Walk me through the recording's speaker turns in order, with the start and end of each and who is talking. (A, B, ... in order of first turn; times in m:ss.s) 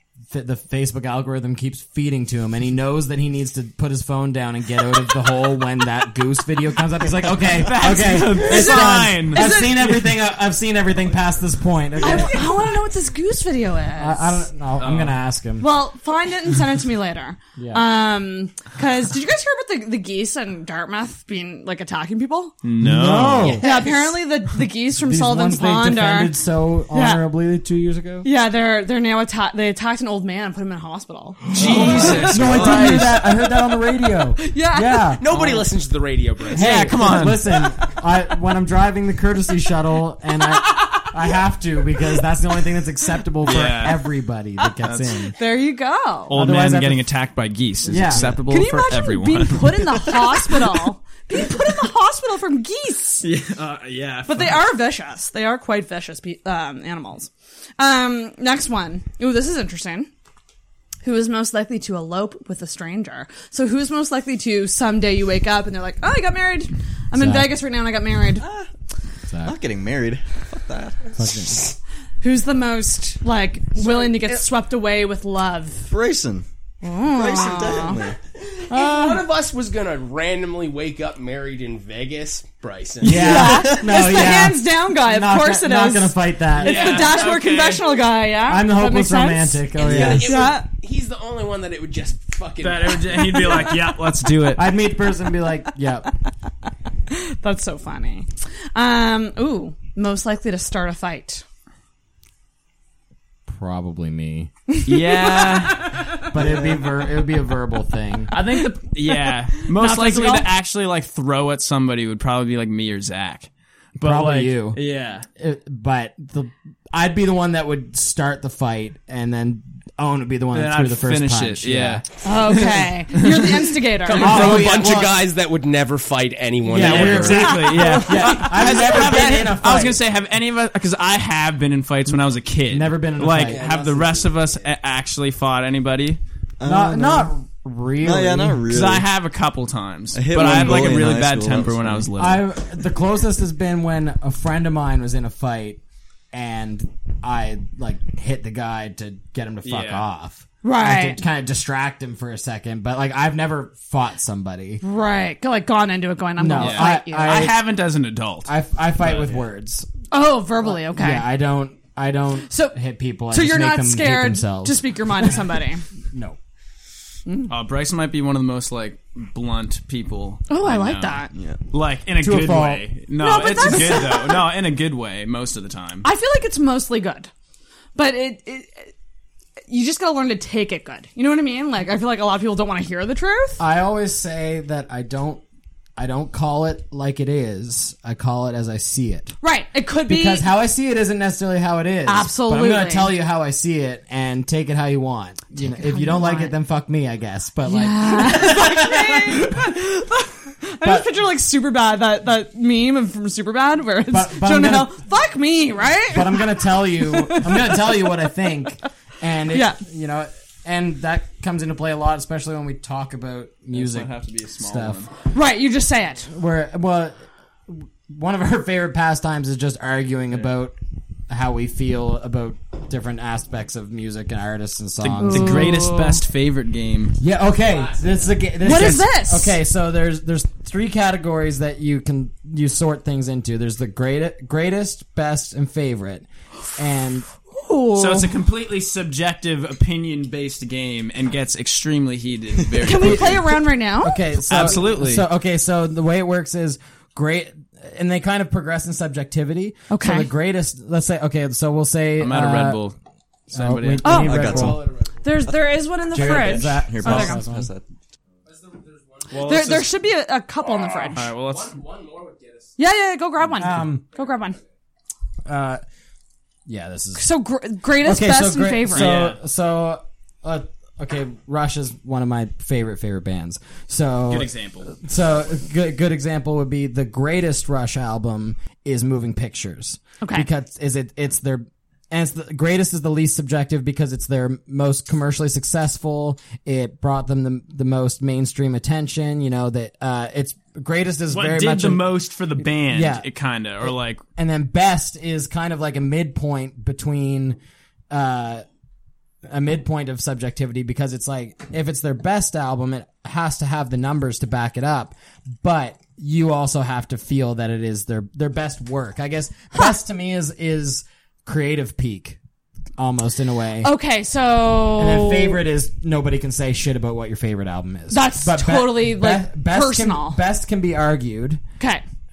0:00.3-0:12.7 A
0:07.4-0:09.4 B
0:08.4-0:10.0 C
0:12.0-0:14.4 C
0:14.0-0:15.7 A
0:14.8-0:15.2 B
0:15.6-0:22.6 C
0:17.6-0:17.8 A
0:22.6-0:23.6 B
0:22.8-0:23.9 A
0:23.6-0:26.3 C
0:23.6-0:24.0 D
0:25.0-0:28.3 A
0:26.9-0:27.2 C
0:28.2-0:32.0 C
0:31.6-0:33.2 B
0:31.6-0:35.7 A
0:31.6-0:33.0 D
0:34.4-0:35.2 C
0:35.2-0:37.1 D
0:36.5-0:45.4 A
0:36.6-0:37.5 B
0:43.4-0:44.1 B
0:44.8-0:45.2 B
0:45.4-0:46.3 C
0:46.3-0:50.6 B
0:46.3-0:47.1 A
0:47.9-0:48.4 A
0:48.2-0:53.3 C
0:53.2-0:54.7 B
0:54.3-1:00.1 C
1:01.0-1:08.4 C
1:07.1-1:07.6 A
1:08.4-1:08.7 E
1:09.3-1:09.6 A
1:09.4-1:11.0 E
1:11.2-1:11.7 A
1:12.2-1:15.9 C
1:13.8-1:14.5 D
1:15.9-1:16.5 E
1:16.8-1:18.0 C
1:17.0-1:18.2 E
1:18.6-1:23.6 D
1:18.7-1:19.3 A
1:23.0-1:27.1 A
1:23.1-1:30.7 C
1:23.4-1:23.8 E
1:26.6-1:28.0 B
1:28.5-1:30.4 A
1:29.8-1:33.8 D
1:32.6-1:34.6 B
1:34.6-1:36.1 A
1:37.1-1:41.4 C
1:43.5-1:44.5 A
1:44.9-1:46.4 B
1:44.9-1:46.0 C
1:46.3-1:48.3 A
1:48.3-1:55.3 B
1:49.7-1:50.5 C
1:54.0-1:54.8 A
1:55.4-2:02.6 A
2:00.5-2:04.9 B
2:02.2-2:04.5 C
2:04.1-2:07.6 D
2:04.2-2:05.3 A
2:06.6-2:10.0 A
2:06.7-2:16.2 B
2:07.3-2:08.7 C
2:12.7-2:13.6 A
2:13.4-2:14.7 D
2:16.6-2:17.3 E
2:16.6-2:18.6 A
2:18.0-2:19.1 E
2:18.7-2:22.4 B
2:20.1-2:22.1 E
2:20.4-2:21.0 A
2:22.2-2:25.8 A
2:26.3-2:34.8 A
2:29.6-2:30.0 B
2:30.6-2:31.2 C
2:34.8-2:37.5 C
2:36.4-2:37.7 A
2:36.6-2:39.4 B
2:38.4-2:39.9 A
2:40.1-2:41.3 C
2:40.6-2:46.4 A
2:42.5-2:42.8 C
2:43.3-2:45.8 C
2:47.3-2:47.5 C
2:47.5-2:56.0 B
2:50.5-2:51.3 C
2:51.3-2:51.6 E
2:52.2-2:52.9 A
2:53.2-2:54.4 C
2:53.6-2:54.1 A
2:56.0-2:57.3 C
2:58.0-2:58.9 C
2:59.7-3:03.6 C
3:03.6-3:05.4 A
3:06.0-3:09.4 A
3:09.4-3:10.5 C
3:10.1-3:19.7 A
3:12.1-3:13.2 C
3:15.6-3:16.5 C
3:17.7-3:28.1 C
3:20.8-3:21.2 A
3:24.1-3:25.0 A
3:26.1-3:35.0 A
3:29.5-3:29.8 C
3:33.7-3:35.1 B
3:35.3-3:36.3 C
3:36.3-3:40.8 A
3:41.3-3:45.7 A
3:45.0-3:47.2 B
3:45.2-3:46.2 C
3:47.2-3:57.3 A
3:47.5-3:48.2 D
3:48.6-3:49.6 C
3:48.7-3:49.0 B
3:57.5-3:58.3 C
3:58.0-4:03.6 B
4:02.8-4:04.2 C
4:04.0-4:12.8 A
4:04.4-4:05.3 B
4:09.9-4:10.3 C
4:12.2-4:13.0 B
4:13.5-4:14.3 B
4:13.5-4:14.8 A
4:14.0-4:14.5 C
4:14.1-4:14.8 E
4:14.4-4:15.4 D
4:15.2-4:17.4 C
4:16.1-4:17.7 A
4:16.1-4:17.8 E
4:18.5-4:19.8 D
4:19.3-4:19.9 B
4:19.4-4:21.3 C
4:20.6-4:22.8 D
4:21.2-4:21.8 B
4:22.8-4:24.6 C
4:23.6-4:24.1 A
4:25.4-4:25.8 A
4:26.7-4:27.3 A
4:27.2-4:29.1 C
4:27.9-4:52.1 A
4:28.9-4:29.4 B
4:34.3-4:35.0 B
4:40.2-4:40.5 C
4:51.3-4:54.2 B
4:52.6-4:53.3 A
4:53.8-4:57.6 A
4:58.1-4:58.6 A
4:59.5-5:12.4 A
5:13.0-5:13.9 A
5:13.8-5:15.6 C
5:15.0-5:21.6 A
5:18.1-5:20.4 C
5:21.8-5:22.0 C